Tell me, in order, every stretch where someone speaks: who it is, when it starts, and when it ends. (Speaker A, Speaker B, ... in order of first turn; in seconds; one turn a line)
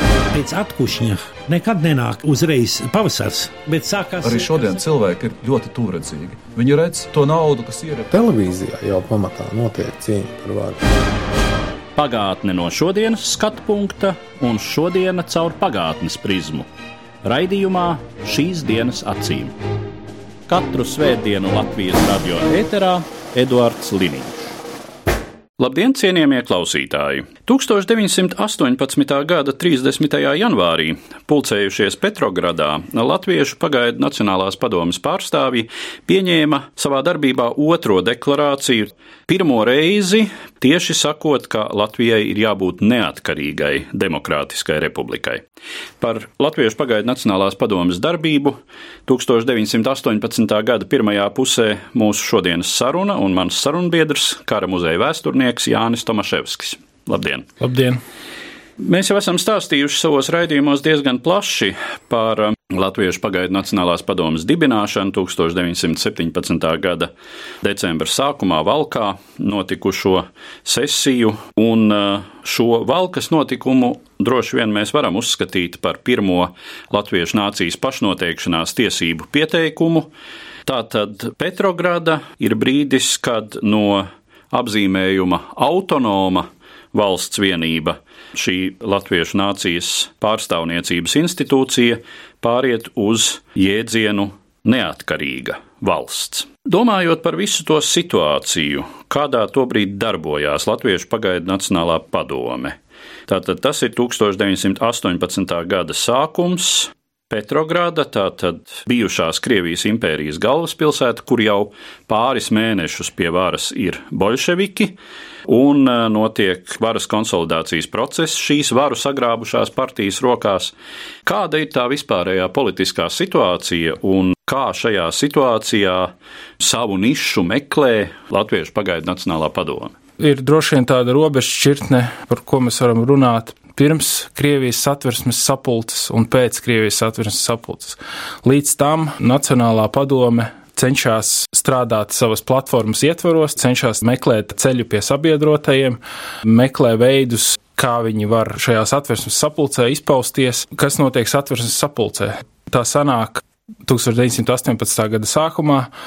Speaker A: 0.3-4.5
Speaker B: 4.2-8.2
Speaker C: 8.1-10.8
Speaker D: 11.9-16.7
Speaker D: 17.2-19.6
Speaker D: 20.5-24.4
Speaker D: 25.6-45.4
Speaker D: 46.0-57.5
Speaker E: 57.6-58.0
Speaker D: 58.8-67.1
Speaker D: 67.6-80.1
Speaker D: 80.7-115.0
Speaker D: 115.5-120.7
Speaker D: 121.2-129.9
Speaker E: 130.2-155.9